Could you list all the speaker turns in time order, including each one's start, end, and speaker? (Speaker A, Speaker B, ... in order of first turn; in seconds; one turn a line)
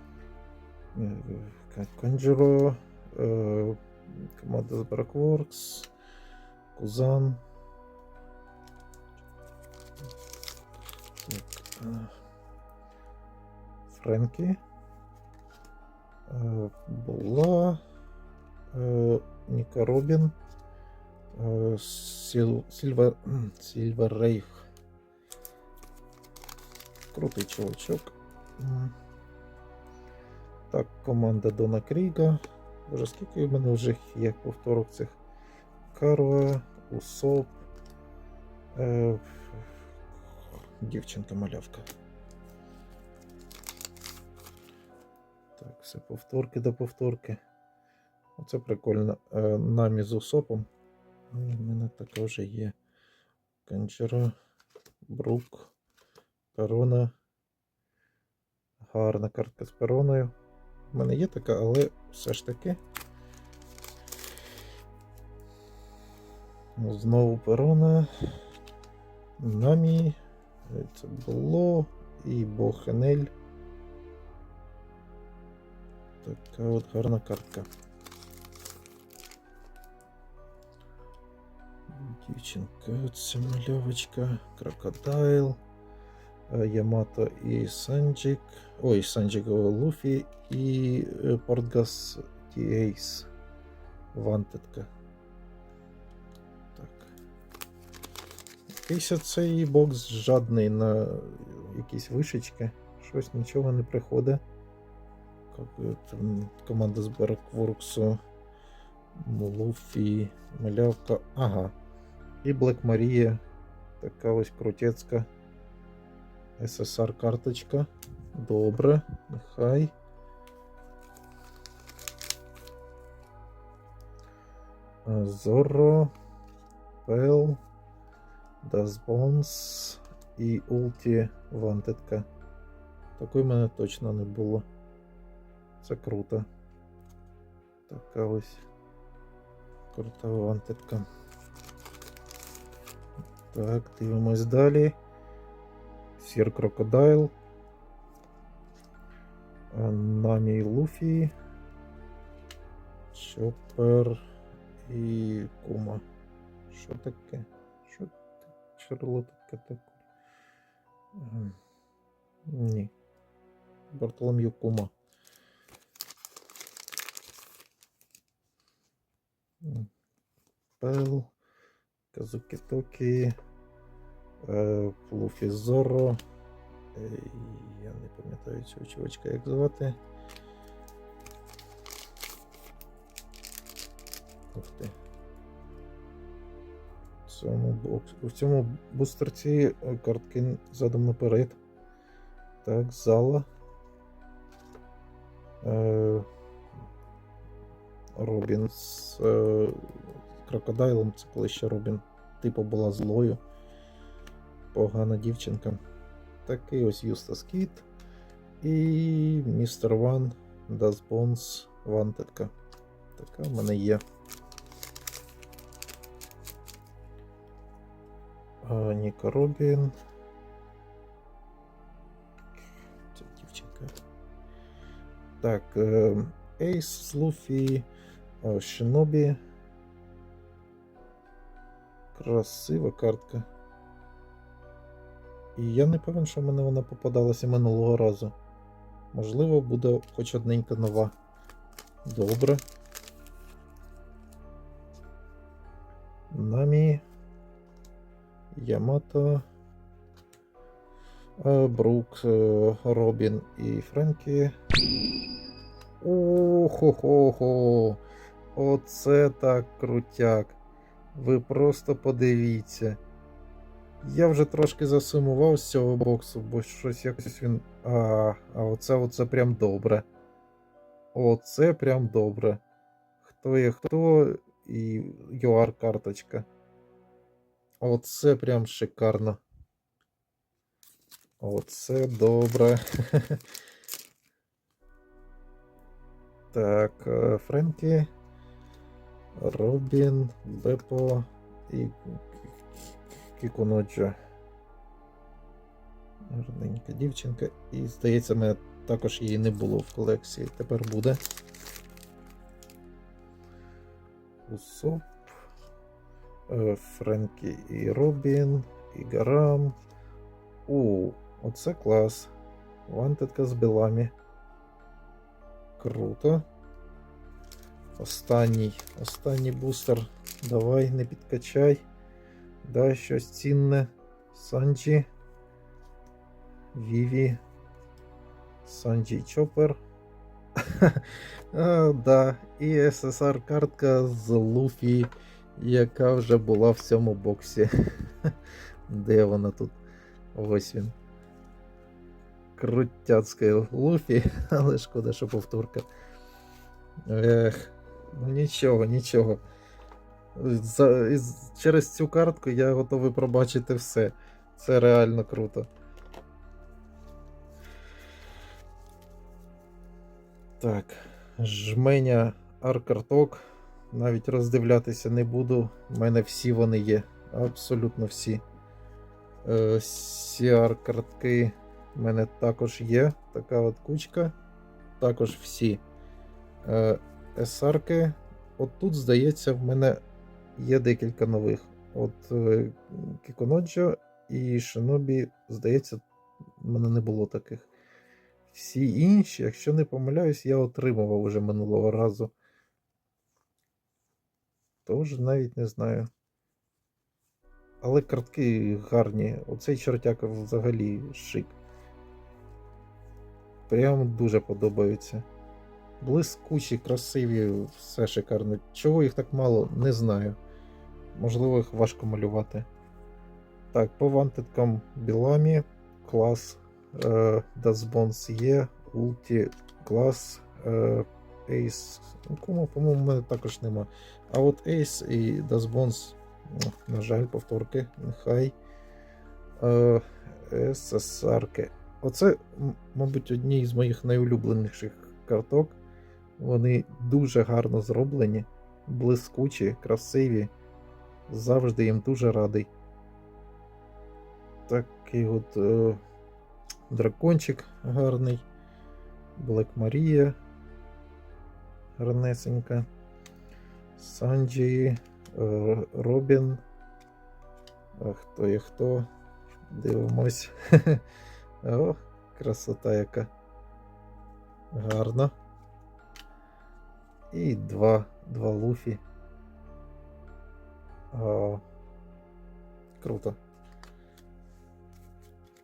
Speaker A: 0.9-5.9
Speaker A: 6.8-7.4
Speaker A: 11.2-12.1
Speaker A: 13.9-14.6
Speaker A: 16.3-17.8
Speaker A: 18.7-20.4
Speaker A: 21.3-24.6
Speaker A: 27.1-28.9
Speaker A: 30.7-35.2
Speaker A: 35.9-37.7
Speaker A: 38.8-39.7
Speaker A: 40.2-41.9
Speaker A: 45.6-47.4
Speaker A: 48.4-50.7
Speaker A: 51.3-52.8
Speaker A: 53.7-54.4
Speaker A: 55.1-55.7
Speaker A: 56.5-57.1
Speaker A: 58.8-60.3
Speaker A: 60.9-62.8
Speaker A: 66.8-68.4
Speaker A: 69.4-73.3
Speaker A: 76.2-77.7
Speaker A: 81.9-85.6
Speaker A: 86.5-93.3
Speaker A: 94.1-94.9
Speaker A: 96.8-97.1
Speaker A: 98.8-104.4
Speaker A: 105.5-108.2
Speaker A: 109.2-111.7
Speaker A: 112.4-113.4
Speaker A: 114.0-115.3
Speaker A: 116.6-119.9
Speaker A: 125.0-126.1
Speaker A: 127.0-127.6
Speaker A: 128.6-132.3
Speaker A: 133.2-134.7
Speaker A: 135.8-136.5
Speaker A: 137.9-138.7
Speaker A: 139.9-141.1
Speaker A: 143.5-145.0
Speaker A: 146.2-147.3
Speaker A: 149.7-151.3
Speaker A: 153.1-154.2
Speaker A: 154.8-156.0
Speaker A: 156.7-158.2
Speaker A: 158.7-159.9
Speaker A: 161.2-161.6
Speaker A: 162.5-162.9
Speaker A: 163.9-164.9
Speaker A: 169.6-169.9
Speaker A: 170.8-171.3
Speaker A: 172.1-173.3
Speaker A: 174.4-176.2
Speaker A: 176.9-180.0
Speaker A: 184.5-184.9
Speaker A: 187.3-191.6
Speaker A: 192.6-193.5
Speaker A: 195.6-196.3
Speaker A: 198.2-203.4
Speaker A: 204.7-205.8
Speaker A: 206.5-207.9
Speaker A: 208.6-212.5
Speaker A: 213.2-214.0
Speaker A: 218.6-219.9
Speaker A: 223.1-223.9
Speaker A: 225.4-227.9
Speaker A: 228.4-229.4
Speaker A: 232.1-233.5
Speaker A: 235.6-238.3
Speaker A: 239.1-241.1
Speaker A: 242.1-242.6
Speaker A: 246.3-247.0
Speaker A: 248.5-249.4
Speaker A: 251.4-254.6
Speaker A: 256.0-258.0
Speaker A: 258.6-260.6
Speaker A: 261.1-263.0
Speaker A: 264.0-270.1
Speaker A: 271.1-272.6
Speaker A: 273.2-276.5
Speaker A: 277.8-279.4
Speaker A: 281.4-283.4
Speaker A: 286.5-288.1
Speaker A: 289.4-294.2
Speaker A: 296.3-301.2
Speaker A: 304.5-305.4
Speaker A: 306.5-309.8
Speaker A: 310.7-312.3
Speaker A: 312.9-314.1
Speaker A: 315.8-316.4
Speaker A: 318.0-321.9
Speaker A: 322.6-325.1
Speaker A: 326.7-327.4
Speaker A: 328.6-329.8
Speaker A: 330.6-338.4
Speaker A: 338.9-339.8
Speaker A: 340.4-340.9
Speaker A: 342.6-345.9
Speaker A: 347.1-349.4
Speaker A: 350.4-355.7
Speaker A: 360.6-368.4
Speaker A: 369.4-374.4
Speaker A: 375.0-375.8
Speaker A: 376.6-380.0
Speaker A: 380.6-386.0
Speaker A: 386.6-387.7
Speaker A: 388.5-392.3
Speaker A: 394.9-396.1
Speaker A: 397.8-401.6
Speaker A: 403.7-405.3
Speaker A: 406.0-410.4
Speaker A: 411.1-412.7
Speaker A: 413.7-428.6
Speaker A: 429.6-435.8
Speaker A: 436.4-440.5
Speaker A: 441.3-442.7
Speaker A: 444.7-446.0
Speaker A: 446.9-448.5
Speaker A: 449.4-450.4
Speaker A: 452.0-452.9
Speaker A: 454.0-456.6
Speaker A: 458.0-459.1
Speaker A: 459.7-461.0
Speaker A: 461.6-463.3
Speaker A: 464.7-465.3
Speaker A: 467.3-469.0
Speaker A: 471.1-471.6
Speaker A: 473.0-473.4